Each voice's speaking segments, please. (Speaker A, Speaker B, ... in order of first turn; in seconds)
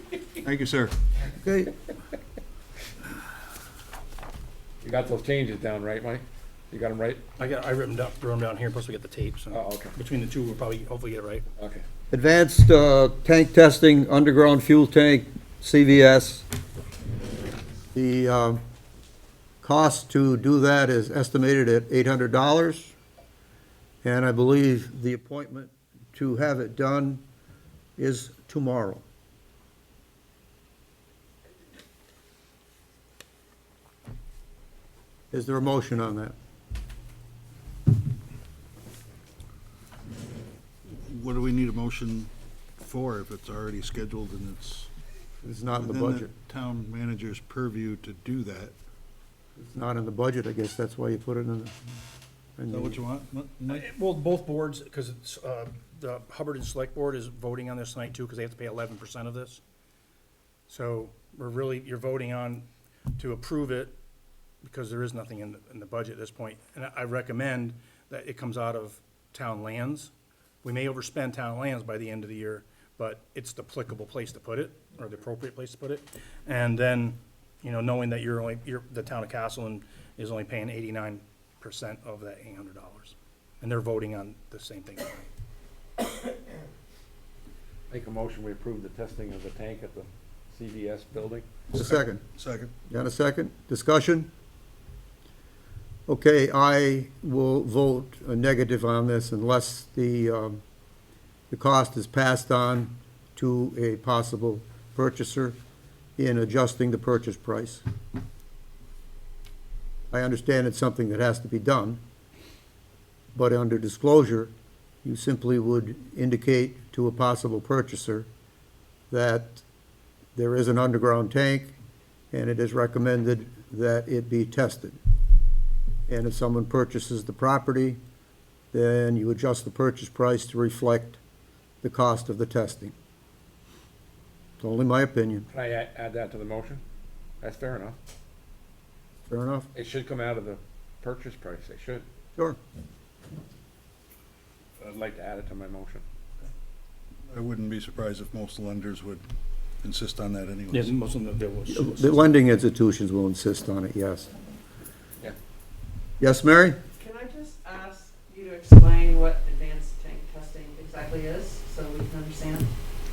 Speaker A: 0.4-0.9, 40.9-44.9, 45.8-48.8, 52.7-53.9, 91.8-92.7, 147.3-149.2, 149.8-150.9
Speaker B: 1.4-1.7, 12.1-16.5, 17.9-18.6, 19.6-22.9, 24.0-27.2, 28.0-29.0, 35.3-36.4, 45.4-46.3, 49.6-51.8, 52.6-53.0, 91.7-92.2, 92.9-94.3, 96.1-100.6, 101.5-105.6, 106.2-107.8, 110.1-112.0, 113.3-114.5, 115.0-118.3, 119.1-119.6, 120.3-121.8, 122.3-125.0, 126.1-128.0, 128.7-131.2, 131.8-132.9, 134.6-135.5, 139.3-139.7, 151.7-154.3, 156.2-156.8
Speaker C: 4.8-7.2, 9.5-10.0, 11.6-11.8, 87.9-91.5, 135.5-136.8, 137.4-138.0, 139.7-142.1, 144.8-146.0
Speaker D: 7.4-11.5, 53.7-59.6, 60.7-63.9, 64.6-70.1, 70.6-85.3, 150.7-152.3
Speaker E: 157.0-162.7